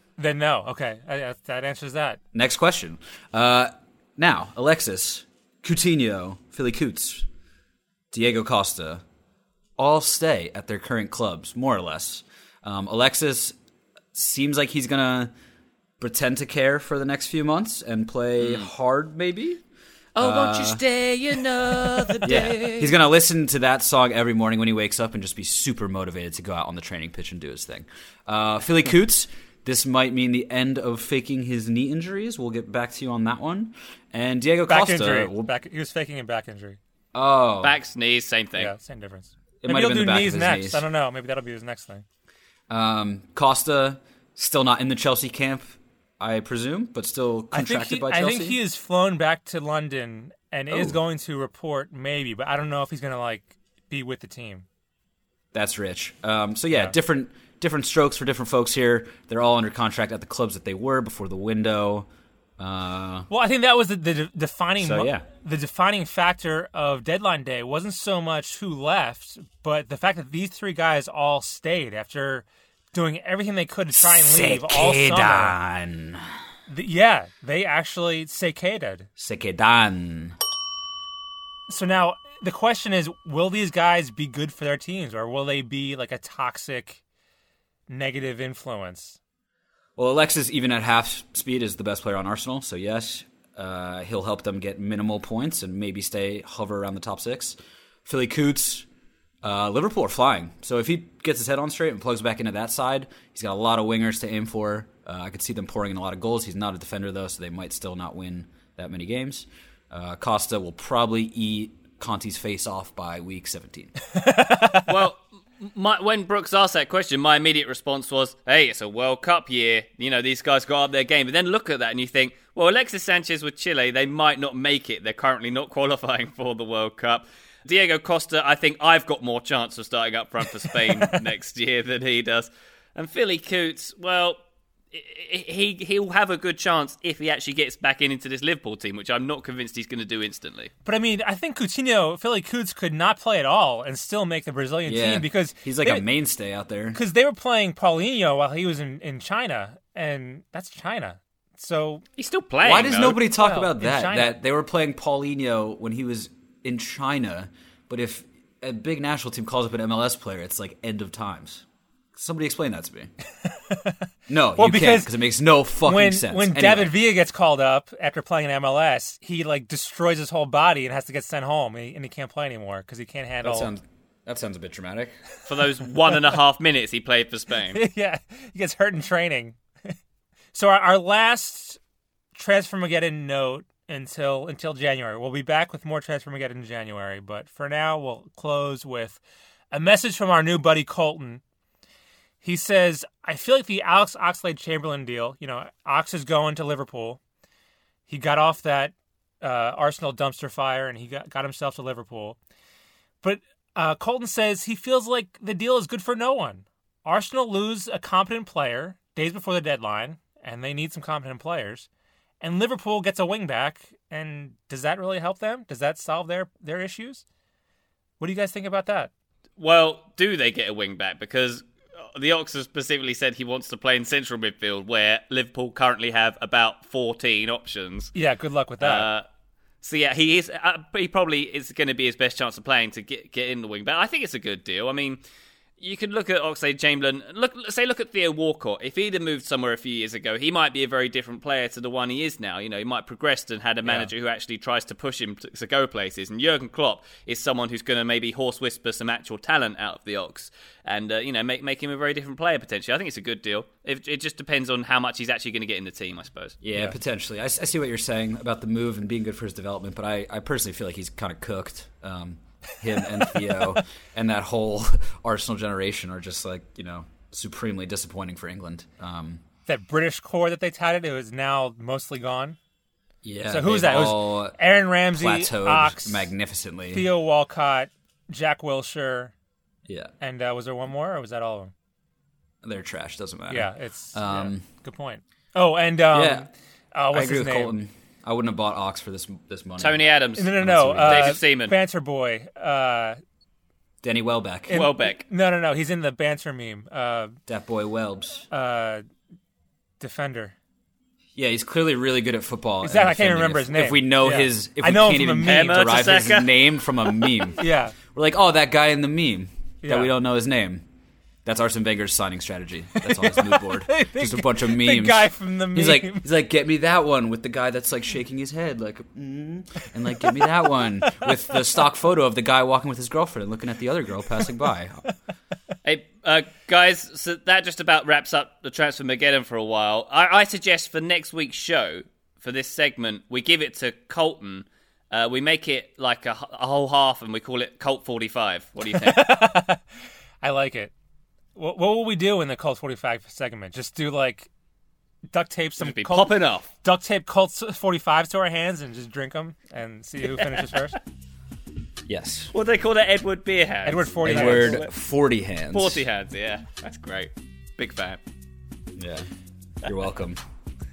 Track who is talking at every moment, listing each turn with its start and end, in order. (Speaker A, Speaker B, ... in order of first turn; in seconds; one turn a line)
Speaker A: 0.2-2.2
Speaker B: 2.3-7.3
Speaker B: 8.1-9.0
Speaker B: 9.8-13.6
Speaker B: 14.1-15.3
Speaker B: 16.0-19.6
Speaker C: 18.4-18.7
Speaker C: 20.1-22.9
Speaker B: 20.2-20.8
Speaker B: 22.2-35.5
Speaker A: 34.7-36.8
Speaker B: 37.1-37.8
Speaker C: 37.6-38.7
Speaker A: 38.6-42.0
Speaker B: 39.6-40.8
Speaker B: 42.7-48.6
Speaker A: 47.5-54.6
Speaker B: 50.7-51.0
Speaker B: 55.5-62.1
Speaker B: 62.6-63.3
Speaker A: 63.3-75.6
Speaker B: 64.8-65.2
Speaker B: 73.9-76.2
Speaker A: 76.7-79.1
Speaker B: 79.2-80.4
Speaker A: 81.7-87.0
Speaker A: 87.9-89.2
Speaker B: 90.0-98.8
Speaker B: 99.4-113.9
Speaker A: 114.2-114.8
Speaker C: 114.8-134.4
Speaker A: 130.8-131.2
Speaker C: 134.9-140.7
Speaker A: 140.8-146.0
Speaker B: 144.8-147.0
Speaker A: 146.9-152.0
Speaker C: 152.2-153.2
Speaker B: 152.6-163.1
Speaker A: 153.3-154.3
Speaker A: 163.4-164.1
Speaker B: 164.3-166.9
Speaker A: 164.6-165.1
Speaker A: 165.8-173.7
Speaker B: 173.4-175.2
Speaker C: 175.5-177.8
Speaker A: 177.7-179.9
Speaker A: 180.5-181.8
Speaker A: 182.3-191.4
Speaker A: 192.4-197.2
Speaker A: 198.1-202.4
Speaker A: 203.2-211.9
Speaker A: 212.4-217.2
Speaker A: 218.2-219.1
Speaker C: 219.6-228.1
Speaker A: 228.1-229.1
Speaker C: 228.8-229.2
Speaker C: 229.8-235.2
Speaker C: 235.8-256.6
Speaker B: 256.6-269.4
Speaker A: 263.3-263.6
Speaker A: 269.7-272.6
Speaker B: 273.2-274.6
Speaker A: 273.5-276.3
Speaker B: 275.1-277.1
Speaker A: 276.9-279.3
Speaker B: 279.9-280.1
Speaker A: 280.2-281.7
Speaker B: 282.6-284.6
Speaker A: 283.5-287.8
Speaker B: 286.1-286.5
Speaker B: 287.1-291.4
Speaker C: 289.8-291.7
Speaker A: 290.4-293.2
Speaker B: 294.0-294.9
Speaker C: 294.7-295.2
Speaker A: 294.7-297.4
Speaker B: 297.5-298.5
Speaker A: 298.5-299.0
Speaker A: 300.0-300.6
Speaker B: 301.4-310.8
Speaker A: 302.8-306.1
Speaker C: 305.4-307.3
Speaker A: 307.6-307.9
Speaker A: 309.8-310.1
Speaker B: 311.4-325.1
Speaker A: 312.9-316.3
Speaker C: 325.8-339.4
Speaker A: 338.9-339.8
Speaker A: 340.4-340.9
Speaker A: 341.6-344.5
Speaker A: 345.3-351.0
Speaker C: 345.8-346.7
Speaker C: 350.4-350.6
Speaker B: 352.1-352.5
Speaker C: 352.5-354.9
Speaker A: 353.8-354.9
Speaker B: 354.2-356.0
Speaker C: 355.7-358.2
Speaker B: 358.9-359.3
Speaker B: 359.8-360.4